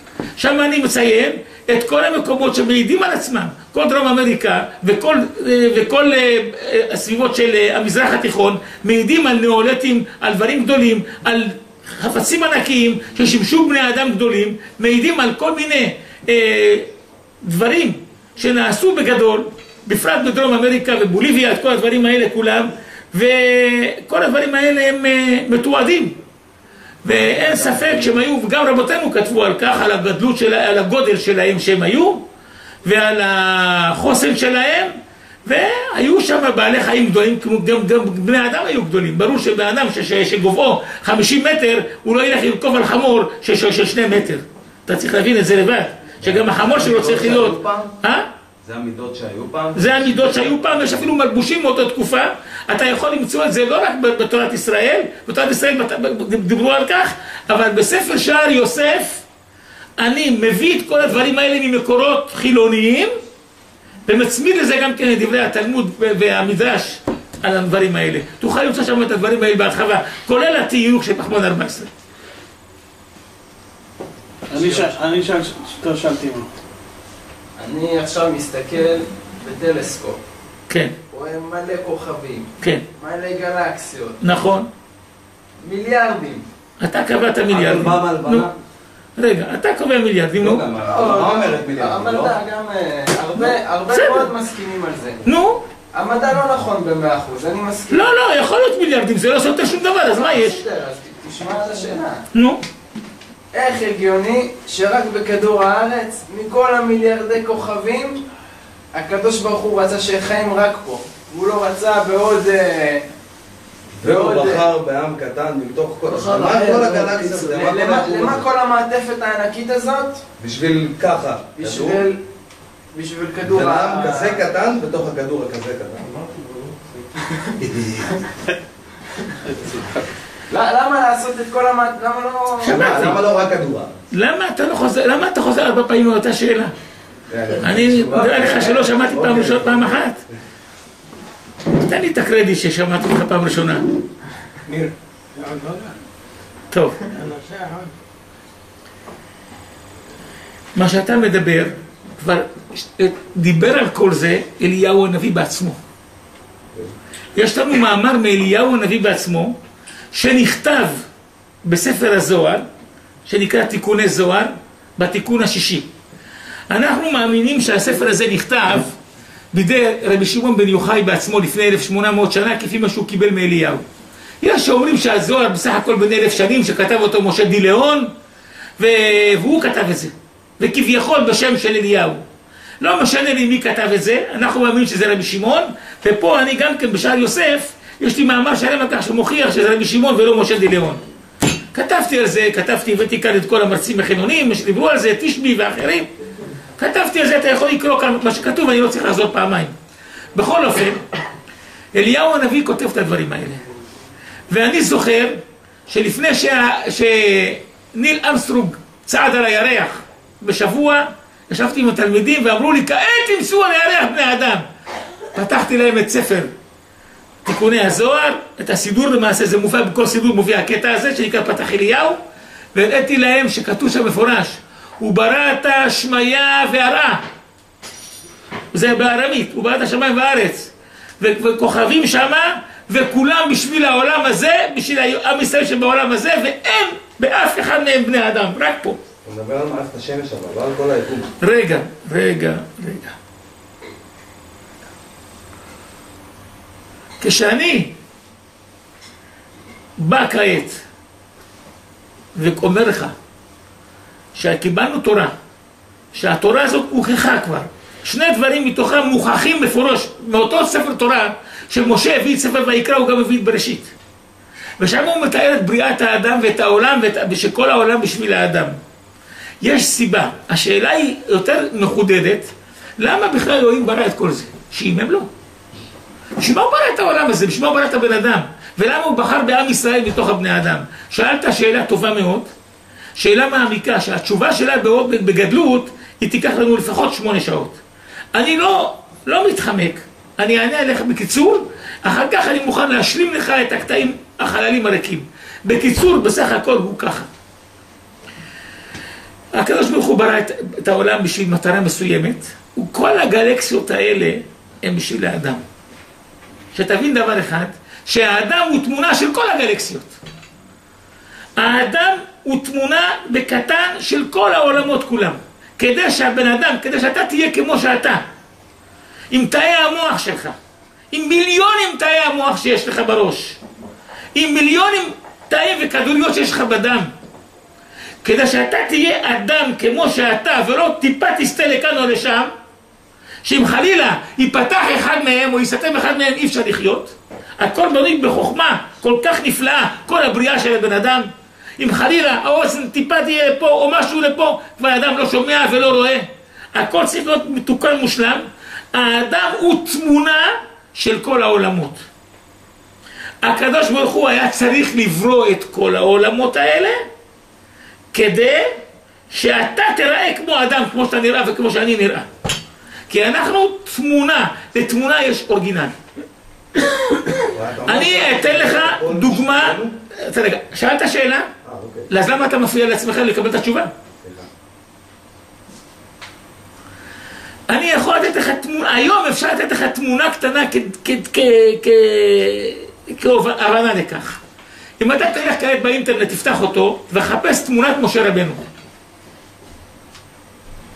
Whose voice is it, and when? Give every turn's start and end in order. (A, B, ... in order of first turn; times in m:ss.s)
0:00.4-0:16.9 A
0:17.4-0:26.2 A
0:27.0-0:32.2 A
0:32.8-0:48.3 A
0:46.2-0:47.9 B
0:48.6-0:50.9 B
0:49.8-0:59.2 A
1:00.0-1:03.1 A
1:04.1-1:11.9 A
1:14.5-1:16.5 C
1:14.5-1:14.9 D
1:17.6-1:20.2 D
1:20.7-1:21.0 A
1:21.1-1:24.2 D
1:24.2-1:24.7 A
1:25.6-1:26.5 D
1:26.8-1:28.5 A
1:27.5-1:28.5 B
1:29.2-1:30.7 A
1:30.4-1:32.4 B
1:30.8-1:35.2 D
1:33.9-1:34.3 A
1:35.2-1:35.6 A
1:35.9-1:38.1 D
1:37.9-1:40.6 A
1:40.1-1:42.2 D
1:42.3-1:42.6 A
1:43.5-1:48.2 D
1:48.9-1:53.1 D
1:54.0-1:58.4 B
1:54.0-1:54.6 D
1:56.1-2:00.2 D
2:00.4-2:02.1 B
2:01.6-2:02.2 D
2:02.9-2:04.4 D
2:03.5-2:06.1 B
2:06.1-2:06.8 C
2:07.6-2:08.1 B
2:09.5-2:09.8 C
2:10.5-2:13.2 D
2:12.6-2:14.0 B
2:12.6-2:13.2 A
2:14.1-2:16.7 A
2:17.3-2:20.0 B
2:17.6-2:20.2 A
2:18.2-2:18.7 D
2:21.7-2:23.9 A
2:24.7-2:26.0 C
2:26.7-2:27.0 A
2:27.1-2:27.9 C
2:30.8-2:35.8 A
2:37.4-2:39.6 A
2:40.1-2:41.0 A
2:41.6-2:42.7 A
2:43.3-2:45.9 A
2:46.7-2:48.9 A
2:49.5-2:53.8 A
2:54.4-2:58.1 A
2:58.8-3:02.2 A
3:02.8-3:11.0 A
3:11.7-3:16.1 A
3:16.8-3:19.8 A
3:20.4-3:21.1 A
3:21.9-3:23.6 A
3:24.5-3:34.6 A
3:35.4-3:36.5 A
3:37.4-3:42.2 A
3:42.8-3:47.2 A
3:48.7-3:59.0 A
3:59.2-4:01.3 B
4:01.4-4:03.2 A
4:07.2-4:08.0 A
4:10.0-4:10.8 A
4:12.4-4:13.1 A
4:14.4-4:15.3 A
4:16.1-4:23.9 A
4:24.8-4:28.8 A
4:29.6-4:35.3 A
4:36.4-4:42.5 A
4:43.2-4:47.8 A
4:48.3-4:57.3 A
4:59.5-5:05.6 A
5:06.8-5:10.2 A
5:11.6-5:18.2 A
5:19.3-5:20.6 A
5:21.1-5:23.6 A
5:24.4-5:27.1 A
5:28.2-5:32.5 A
5:33.4-5:52.0 A
5:53.4-5:57.0 A
5:58.1-6:02.3 A
6:03.1-6:06.0 A
6:07.5-6:10.0 B
6:07.9-6:11.5 A
6:11.6-6:12.1 B
6:12.1-6:13.9 A
6:14.2-6:14.5 B
6:17.7-6:24.4 A
6:25.0-6:28.6 A